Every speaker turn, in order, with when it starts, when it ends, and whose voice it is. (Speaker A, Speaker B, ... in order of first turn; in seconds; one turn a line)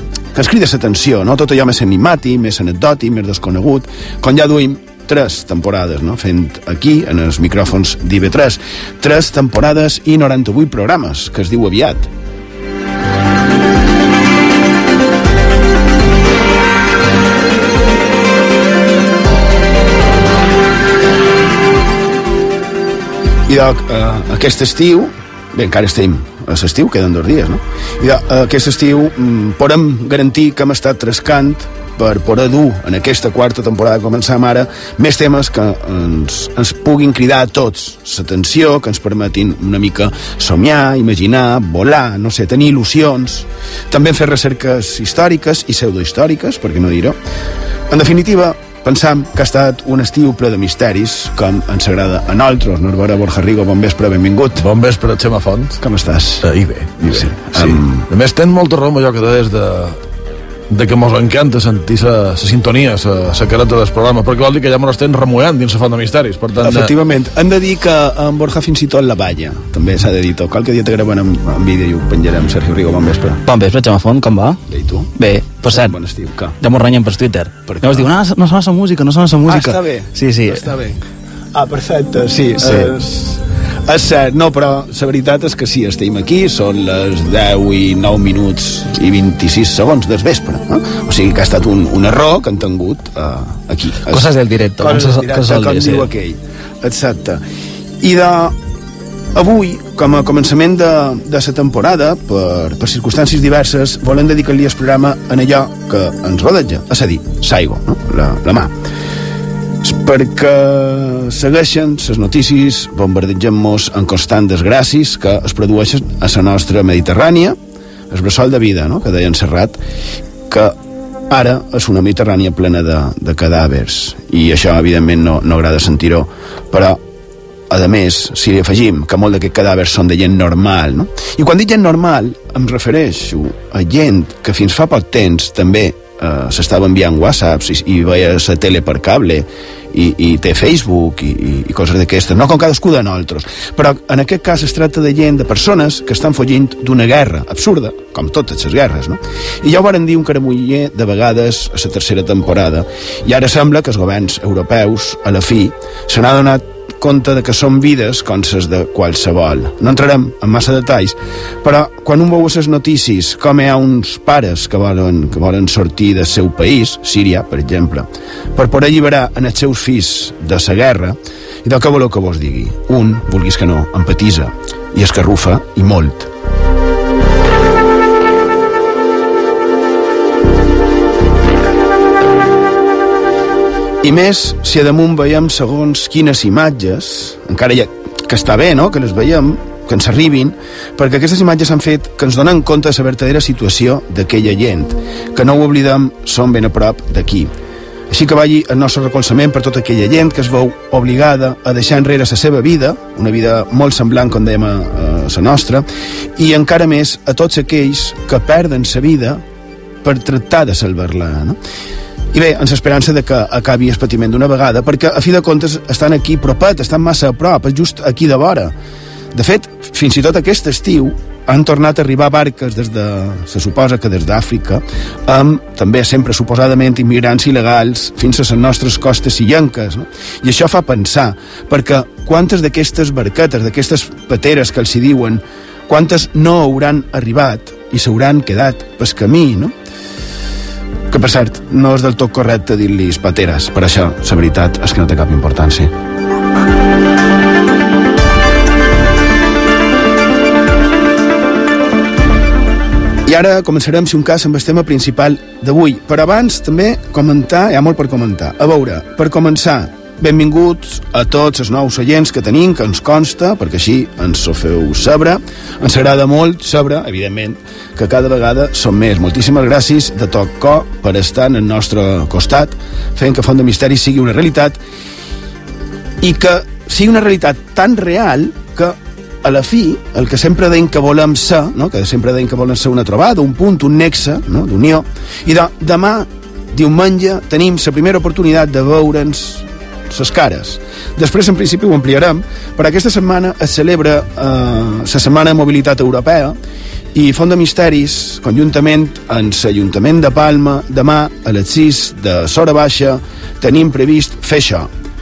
Speaker A: 0.3-12.1
Speaker A: 23.5-47.2
Speaker A: 47.9-54.6
Speaker B: 54.6-55.8
Speaker A: 55.8-56.4
Speaker B: 56.4-60.0
Speaker A: 57.1-57.9
Speaker B: 60.7-66.9
Speaker A: 66.6-73.4
Speaker C: 73.5-74.6
Speaker A: 74.7-75.1
Speaker C: 75.2-76.0
Speaker A: 75.7-76.5
Speaker C: 76.6-80.7
Speaker A: 77.7-78.1
Speaker A: 79.5-81.0
Speaker A: 81.5-97.4
Speaker C: 82.6-83.0
Speaker C: 94.1-96.1
Speaker A: 98.0-98.6
Speaker A: 99.3-108.7
Speaker A: 109.8-117.6
Speaker A: 118.1-119.8
Speaker A: 120.5-120.8
Speaker A: 121.3-127.0
Speaker A: 127.7-176.3
Speaker A: 184.0-197.5
Speaker A: 198.1-209.4
Speaker A: 210.0-211.6
Speaker A: 212.3-218.7
Speaker A: 219.3-239.7
Speaker A: 241.1-245.9
Speaker A: 253.2-274.8
Speaker A: 276.2-296.6
Speaker A: 297.1-304.9